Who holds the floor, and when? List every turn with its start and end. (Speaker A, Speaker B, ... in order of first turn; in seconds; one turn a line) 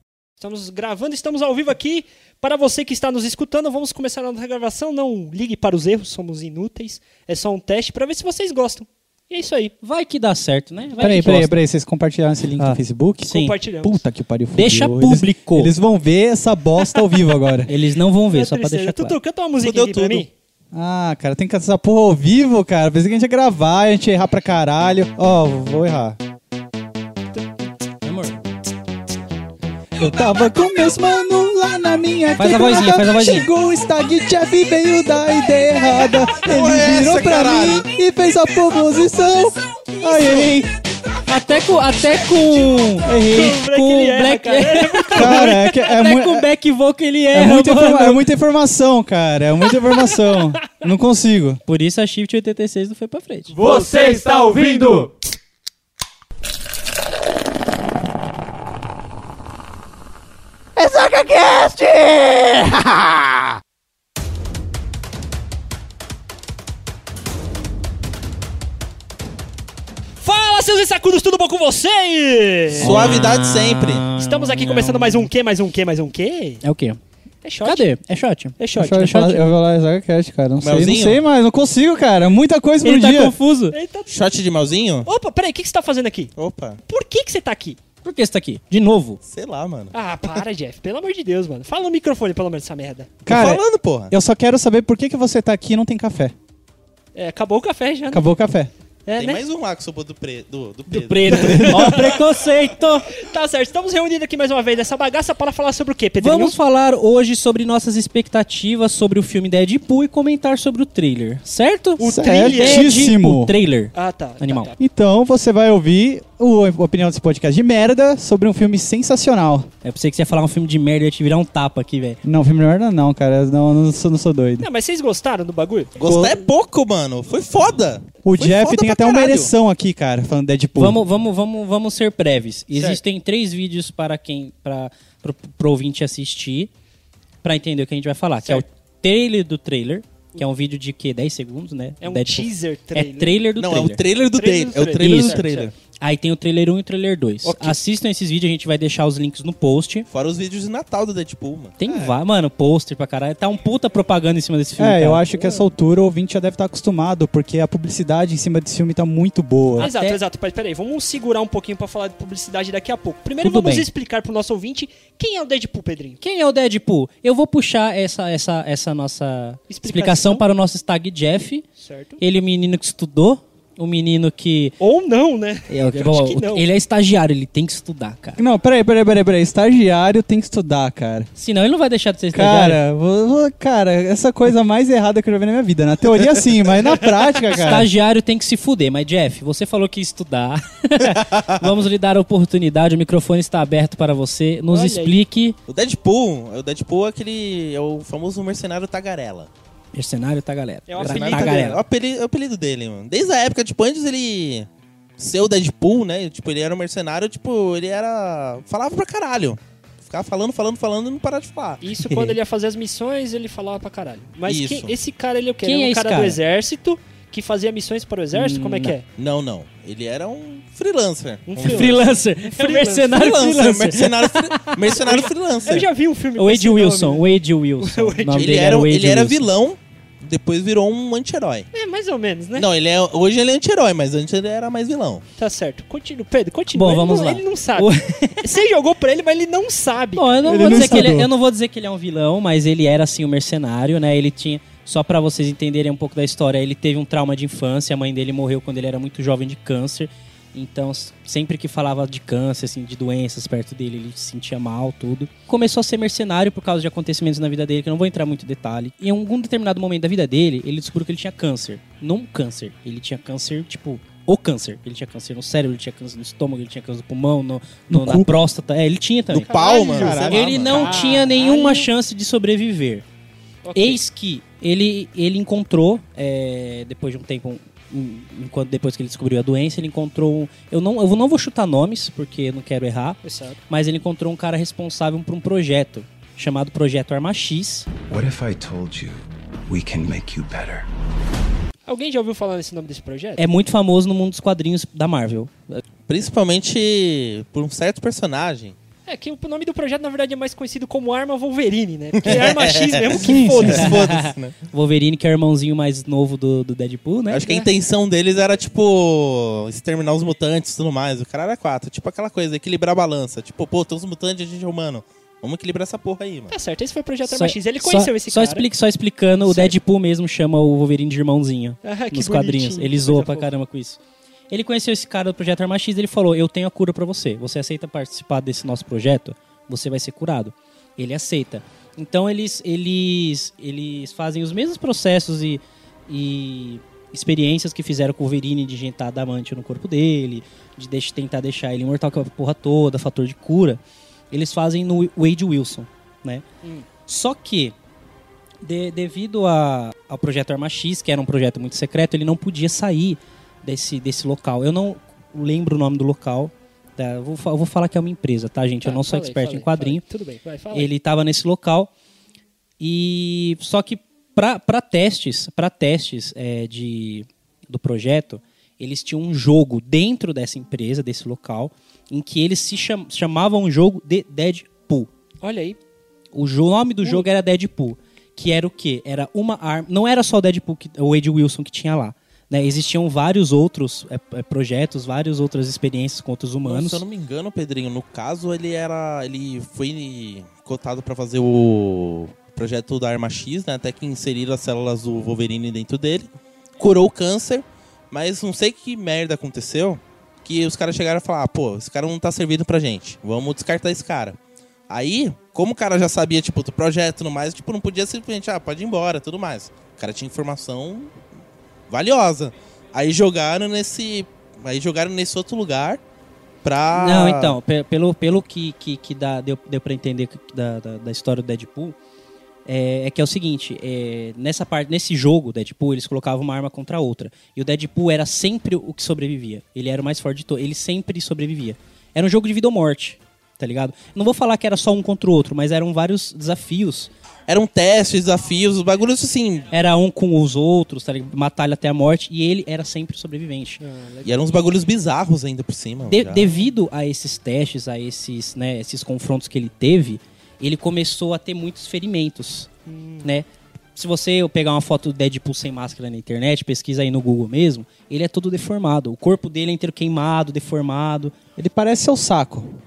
Speaker A: 0.4-9.7
Speaker B: 9.8-11.6
Speaker C: 11.0-17.7
Speaker B: 12.6-13.5
Speaker A: 13.3-14.0
Speaker B: 14.5-15.7
Speaker B: 17.7-19.2
Speaker A: 18.3-20.3
Speaker D: 19.6-20.3
Speaker C: 20.7-26.2
Speaker B: 28.0-28.4
Speaker C: 30.0-40.7
Speaker B: 32.4-33.5
Speaker D: 36.4-37.9
Speaker A: 40.0-40.5
Speaker B: 41.3-48.2
Speaker C: 43.0-43.6
Speaker A: 43.1-45.7
Speaker C: 45.1-46.5
Speaker C: 47.3-51.6
Speaker B: 51.7-53.6
Speaker C: 53.5-55.1
Speaker C: 60.8-62.6
Speaker A: 70.2-73.0
Speaker B: 72.8-75.3
Speaker D: 72.8-74.1
Speaker A: 74.1-76.6
Speaker B: 76.6-77.0
Speaker A: 77.4-77.9
Speaker B: 77.6-79.4
Speaker A: 78.6-79.3
Speaker C: 78.8-83.3
Speaker D: 80.6-81.2
Speaker B: 82.8-83.8
Speaker A: 83.7-84.2
Speaker D: 84.1-85.1
Speaker A: 85.0-86.3
Speaker D: 86.4-86.8
Speaker A: 86.9-87.8
Speaker B: 88.0-89.2
Speaker D: 89.2-90.0
Speaker A: 89.9-93.2
Speaker C: 93.2-96.3
Speaker D: 93.2-94.1
Speaker A: 97.1-98.3
Speaker C: 98.1-98.7
Speaker A: 99.0-99.4
Speaker D: 99.1-102.1
Speaker B: 100.9-103.1
Speaker A: 101.3-102.5
Speaker A: 103.1-106.5
Speaker B: 106.2-114.7
Speaker A: 112.0-113.0
Speaker C: 112.1-113.5
Speaker A: 113.9-114.8
Speaker C: 114.8-119.7
Speaker B: 119.8-122.2
Speaker C: 122.2-124.7
Speaker A: 124.6-125.9
Speaker D: 126.0-129.5
Speaker C: 126.0-126.4
Speaker C: 128.2-131.0
Speaker B: 130.8-136.7
Speaker A: 132.7-133.0
Speaker B: 137.4-144.0
Speaker A: 142.0-143.4
Speaker D: 143.6-145.7
Speaker A: 144.3-145.7
Speaker B: 145.0-145.4
Speaker B: 146.0-150.1
Speaker A: 147.4-147.8
Speaker D: 150.1-151.8
Speaker B: 151.8-155.2
Speaker C: 154.8-159.9
Speaker A: 155.3-155.6
Speaker A: 159.8-166.2
Speaker B: 159.8-160.2
Speaker B: 163.4-163.9
Speaker B: 166.2-171.7
Speaker A: 169.7-170.4
Speaker A: 171.8-172.2
Speaker B: 172.2-174.8
Speaker A: 174.8-176.7
Speaker B: 175.7-178.4
Speaker C: 178.4-181.3
Speaker B: 181.4-182.8
Speaker C: 182.3-187.9
Speaker B: 187.5-195.6
Speaker A: 194.7-195.2
Speaker D: 195.7-199.5
Speaker B: 199.9-201.8
Speaker A: 200.9-201.8
Speaker D: 201.0-211.8
Speaker A: 211.8-219.1
Speaker B: 212.0-212.4
Speaker D: 214.4-214.9
Speaker B: 215.6-216.4
Speaker B: 218.3-218.9
Speaker D: 219.1-222.2
Speaker A: 221.5-223.2
Speaker B: 221.6-225.2
Speaker D: 223.1-225.9
Speaker A: 225.0-227.3
Speaker B: 226.4-229.5
Speaker A: 227.8-228.6
Speaker D: 228.3-231.7
Speaker A: 231.7-232.7
Speaker D: 232.6-235.2
Speaker A: 235.4-241.0
Speaker B: 236.7-238.4
Speaker B: 240.2-269.6
Speaker C: 240.4-241.3
Speaker C: 267.9-268.3
Speaker D: 269.3-270.9
Speaker C: 269.5-271.3
Speaker A: 269.6-271.9
Speaker B: 270.3-273.0
Speaker A: 273.6-274.0
Speaker B: 273.8-287.9
Speaker A: 283.2-283.6
Speaker E: 288.1-290.9
Speaker A: 291.9-293.4
Speaker B: 293.4-295.8
Speaker D: 296.1-298.8
Speaker A: 299.1-304.0
Speaker D: 302.2-304.6
Speaker B: 303.6-307.5
Speaker D: 307.3-316.5
Speaker A: 316.5-318.7
Speaker B: 317.2-324.0
Speaker A: 319.4-319.8
Speaker A: 321.8-323.5
Speaker B: 324.5-343.8
Speaker B: 344.3-346.5
Speaker B: 347.0-347.8
Speaker B: 348.6-360.0
Speaker A: 358.8-360.9
Speaker B: 360.7-361.9
Speaker B: 362.8-375.1
Speaker A: 375.4-375.8
Speaker B: 376.3-387.0
Speaker D: 386.6-404.4
Speaker D: 404.9-411.1
Speaker D: 411.9-416.0
Speaker D: 416.6-417.6
Speaker B: 416.9-422.0
Speaker B: 422.7-437.1
Speaker D: 437.5-439.7
Speaker B: 439.7-443.8
Speaker A: 443.8-444.6
Speaker D: 444.2-446.5
Speaker B: 446.1-452.7
Speaker A: 452.9-453.3
Speaker B: 453.2-461.4
Speaker C: 461.6-462.8